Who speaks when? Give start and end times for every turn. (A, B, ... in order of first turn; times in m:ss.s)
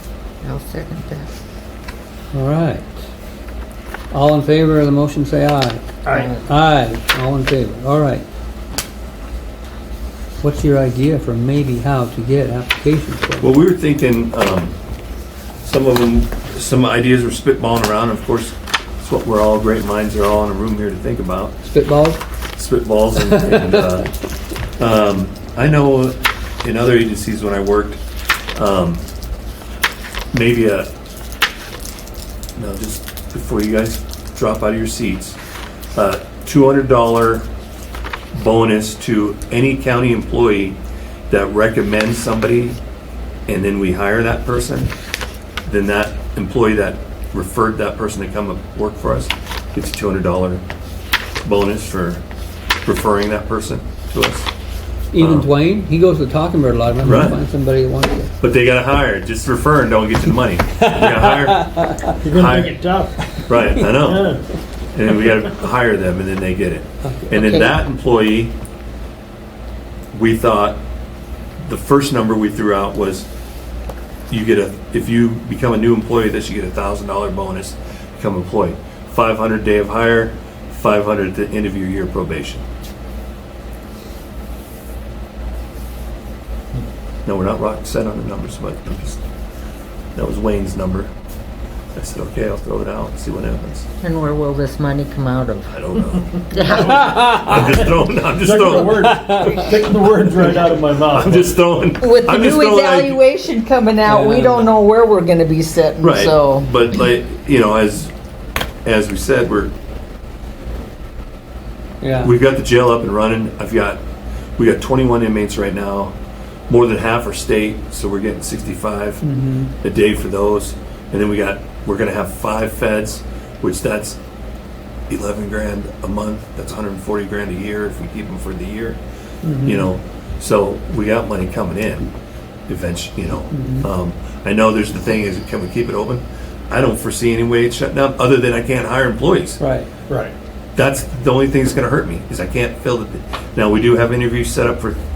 0:00.4-0:01.3 A
0:02.3-0:02.9 B
0:04.1-0:08.2 B
0:06.1-0:06.4 C
0:06.1-0:06.4 A
0:10.4-0:13.5 B
0:13.4-0:14.8 D
0:15.6-0:21.6 D
0:21.6-0:22.2 B
0:22.5-0:24.1 D
0:23.2-0:23.9 B
0:24.8-0:28.0 D
0:28.5-0:29.0 D
0:30.3-0:30.9 D
0:32.6-0:35.4 D
0:35.9-0:37.4 D
0:38.3-0:40.8 D
0:41.3-0:42.8 D
0:43.5-0:44.9 D
0:45.6-0:50.6 D
0:51.4-0:52.2 D
0:52.8-0:54.5 D
0:55.1-0:58.3 B
0:55.2-0:55.5 D
0:57.0-0:57.4 D
0:58.4-1:01.7 D
1:00.9-1:02.1 B
1:02.2-1:03.4 C
1:02.3-1:02.8 D
1:03.5-1:04.4 D
1:04.0-1:04.4 C
1:04.9-1:08.5 D
1:07.0-1:07.7 B
1:10.1-1:10.8 D
1:11.6-1:13.3 D
1:14.3-1:22.6 D
1:27.2-1:29.2 D
1:30.1-1:31.1 D
1:31.9-1:33.9 D
1:34.0-1:35.7 A
1:35.7-1:39.1 D
1:36.5-1:37.0 A
1:36.7-1:39.8 B
1:38.4-1:41.7 C
1:41.0-1:43.2 D
1:42.0-1:46.7 A
1:44.0-1:44.7 B
1:46.0-1:48.1 D
1:48.8-1:49.7 D
1:52.0-1:52.3 B
1:52.2-1:54.0 D
1:54.6-1:56.1 D
1:56.7-1:59.2 D
1:59.2-1:59.7 B
1:59.8-2:04.2 D
2:05.1-2:09.0 D
2:09.4-2:09.9 B
2:09.6-2:12.1 D
2:12.7-2:19.6 D
2:13.5-2:13.9 B
2:19.6-2:19.9 B
2:20.8-2:25.0 D